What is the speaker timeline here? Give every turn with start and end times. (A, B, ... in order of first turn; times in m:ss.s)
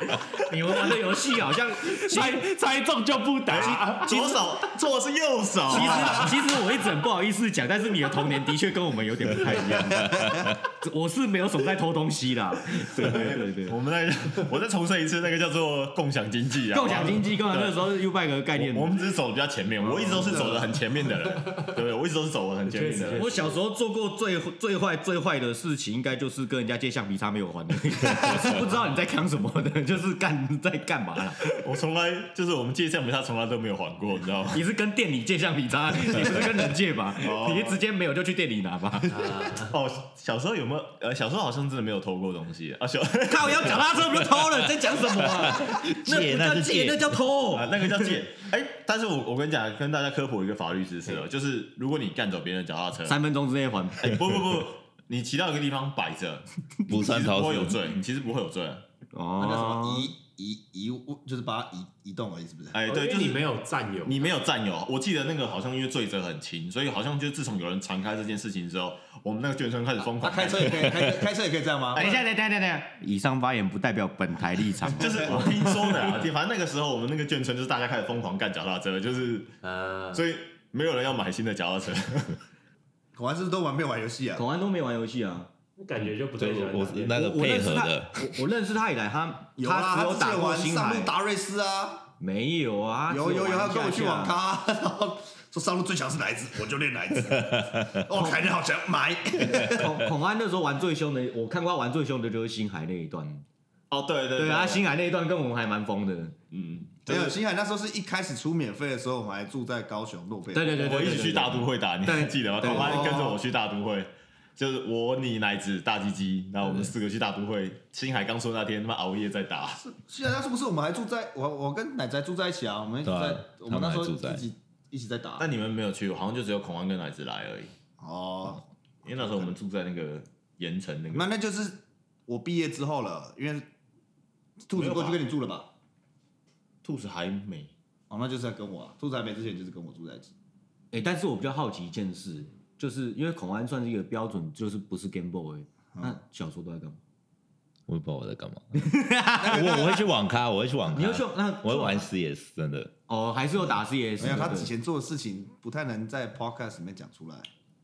0:00.1-0:02.5 A
0:01.8-0:04.4 B
0:03.5-0:06.4 C
0:03.6-0:04.4 A
0:05.7-0:13.8 A
0:05.7-0:06.4 B
0:13.0-0:17.9 C
0:16.7-0:18.9 A
0:18.6-0:23.3 C
0:19.8-0:20.8 D
0:20.0-0:20.4 B
0:22.6-0:23.6 B
0:23.2-0:31.5 A
0:31.5-0:34.6 C
0:34.5-0:39.2 A
0:37.2-0:37.8 C
0:39.1-0:39.8 B
0:39.6-0:45.0 C
0:43.2-0:48.1 A
0:45.5-0:47.2 E
0:47.5-0:53.2 C
0:53.0-0:54.2 A
0:54.0-0:58.8 C
0:56.9-0:57.9 E
0:59.1-1:00.1 A
0:59.4-1:02.8 D
1:02.7-1:03.4 C
1:02.8-1:04.2 B
1:04.0-1:10.9 C
1:10.2-1:12.1 D
1:11.9-1:12.2 C
1:12.0-1:15.5 A
1:15.0-1:19.5 C
1:15.8-1:16.2 B
1:19.6-1:20.2 B
1:20.1-1:22.4 C
1:23.1-1:24.4 D
1:24.4-1:25.5 A
1:25.8-1:27.1 B
1:26.4-1:28.4 E
1:26.9-1:31.1 A
1:29.6-1:32.1 D
1:32.2-1:34.4 A
1:33.1-1:40.0 D
1:37.3-1:38.0 E
1:38.1-1:38.4 A
1:39.4-1:43.4 A
1:43.9-1:44.9 C
1:44.4-1:46.3 A
1:46.5-1:47.4 C
1:47.0-1:51.2 D
1:50.5-1:53.2 A
1:50.7-1:59.8 C
1:52.6-1:53.4 D
1:59.8-2:05.4 D
2:03.0-2:04.4 E
2:05.4-2:07.7 C
2:08.0-2:08.6 D
2:09.0-2:11.3 C
2:09.2-2:09.5 D
2:11.1-2:13.6 D
2:14.6-2:15.7 D
2:14.7-2:15.2 C
2:16.8-2:17.7 C
2:18.1-2:20.3 D
2:20.9-2:27.0 A
2:27.9-2:32.9 E
2:28.7-2:29.9 A
2:29.4-2:30.1 D
2:30.9-2:32.1 A
2:33.1-2:34.7 A
2:34.2-2:37.5 D